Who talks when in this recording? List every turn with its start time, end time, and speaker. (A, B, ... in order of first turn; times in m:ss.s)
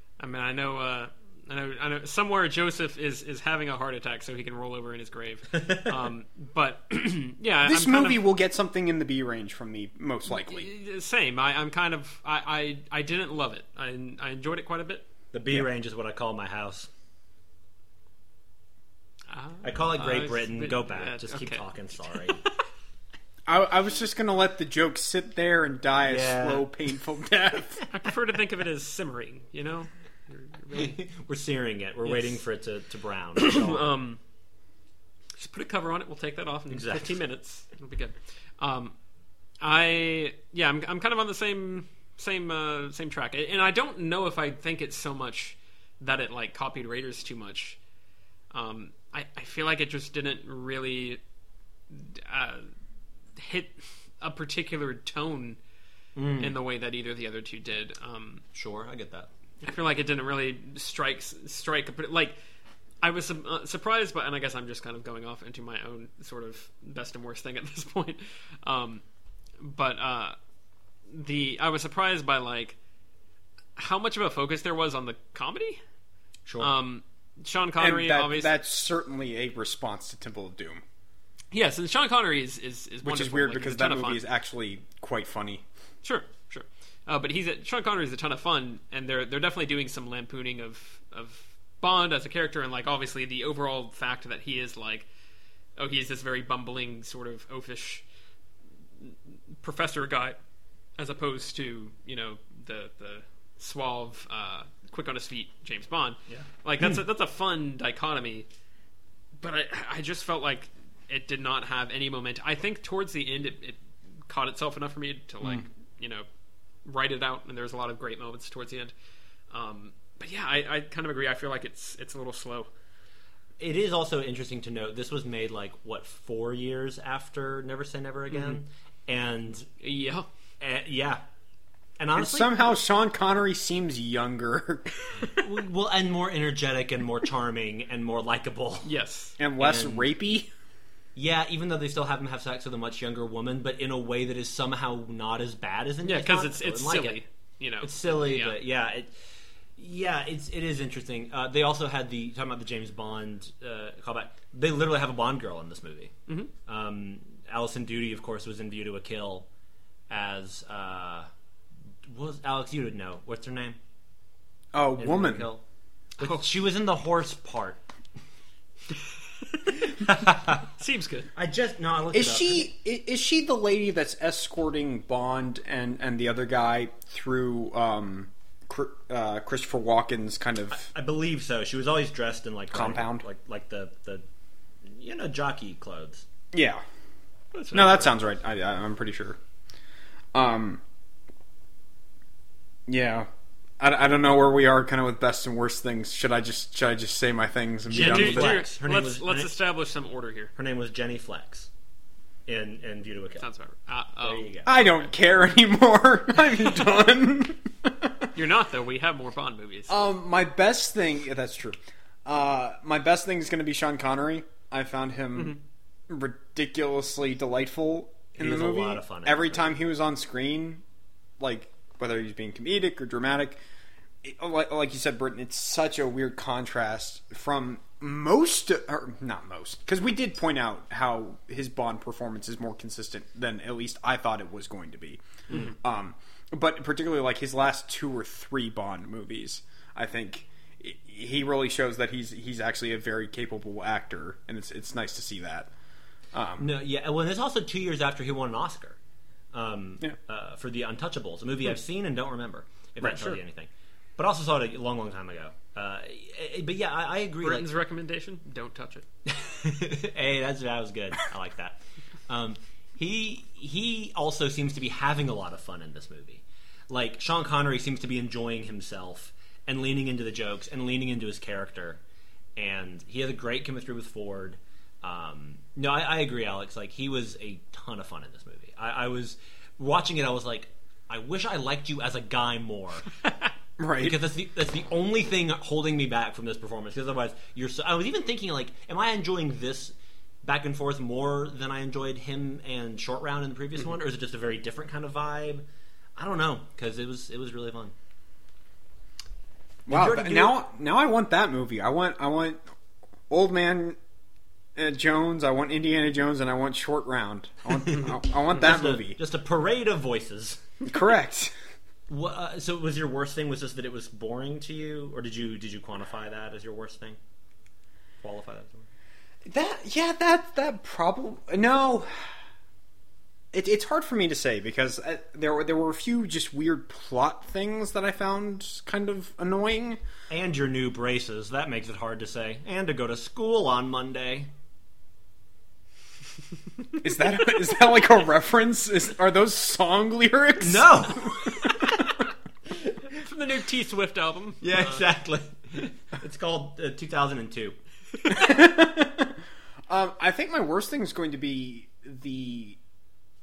0:00.2-0:08.2 A
0:05.6-0:05.9 B
0:07.7-0:10.7 C
0:10.3-0:15.0 A
0:15.3-0:16.9 B
0:19.3-0:22.6 A
0:19.6-0:22.4 B
0:23.5-0:27.8 C
0:26.0-0:26.7 B
0:27.9-0:31.0 A
0:30.7-0:33.9 B
0:32.0-0:32.4 A
0:33.4-0:34.2 A
0:35.4-0:39.0 A
0:36.7-0:37.2 B
0:39.6-0:47.8 A
0:48.5-0:51.2 A
0:51.9-0:52.7 A
0:53.4-0:55.6 A
0:56.2-0:56.6 B
0:56.4-0:58.4 A
0:58.5-0:59.3 B
0:59.6-1:02.4 A
1:03.0-1:09.0 A
1:09.6-1:10.4 A
1:11.1-1:12.8 A
1:13.8-1:15.8 A
1:16.5-1:16.7 B
1:16.6-1:18.5 A
1:17.8-1:20.8 C
1:21.5-1:24.2 A
1:23.0-1:25.6 C
1:26.0-1:35.1 A
1:35.8-1:38.0 A
1:39.0-1:40.4 A
1:41.0-1:48.5 A
1:49.4-1:56.3 A
1:56.8-1:58.9 A
1:59.5-2:02.7 A
2:03.6-2:09.7 B
2:08.3-2:08.6 A
2:09.8-2:10.3 A
2:10.6-2:11.2 B
2:12.0-2:12.5 B
2:12.2-2:15.3 C
2:15.3-2:18.9 B
2:18.8-2:19.4 A
2:19.4-2:20.5 C
2:19.6-2:20.1 B
2:21.2-2:27.2 B
2:26.0-2:28.6 A
2:27.8-2:29.3 B
2:29.8-2:36.1 B
2:36.7-2:39.5 B
2:40.1-2:41.3 B
2:42.0-2:43.8 B
2:44.7-2:45.5 C
2:45.0-2:45.6 B
2:46.2-2:47.8 B
2:46.2-2:46.5 A
2:49.5-2:50.0 A
2:50.0-2:50.6 B
2:50.6-2:51.3 A
2:51.4-2:52.7 B
2:52.1-3:00.9 C
3:00.7-3:04.2 B
3:02.7-3:03.2 C
3:04.9-3:06.2 B
3:06.5-3:06.8 C
3:07.6-3:07.8 A
3:07.7-3:08.1 B
3:07.7-3:09.4 C
3:10.4-3:10.8 C
3:12.9-3:13.3 C
3:13.8-3:18.6 C
3:17.9-3:19.5 B
3:17.9-3:20.5 A
3:20.6-3:21.7 B
3:22.5-3:23.4 B
3:23.4-3:24.5 A
3:24.2-3:24.7 B
3:24.6-3:28.3 C
3:28.4-3:30.1 A
3:29.9-3:35.6 C
3:36.1-3:40.8 C
3:38.4-3:39.7 B
3:41.4-3:43.6 C
3:44.2-4:05.7 C
4:06.3-4:06.7 C
4:06.6-4:09.0 B
4:09.5-4:17.7 B
4:13.0-4:13.4 C
4:17.4-4:19.0 A
4:19.3-4:32.0 B
4:32.6-4:43.1 B
4:43.8-4:44.2 C
4:44.0-4:55.6 B
4:56.2-4:57.9 B
4:59.9-5:00.5 B
4:59.9-5:02.6 C
5:03.3-5:04.0 C
5:04.8-5:09.2 C
5:07.7-5:10.7 B
5:10.8-5:11.5 C
5:12.1-5:17.2 B
5:18.2-5:18.9 B
5:19.5-5:22.4 C
5:23.5-5:30.0 C
5:30.3-5:34.5 B
5:37.0-5:41.9 C
5:40.6-5:41.8 B
5:41.7-5:42.2 A
5:43.1-5:45.0 A
5:44.6-5:47.8 B
5:48.3-5:52.8 C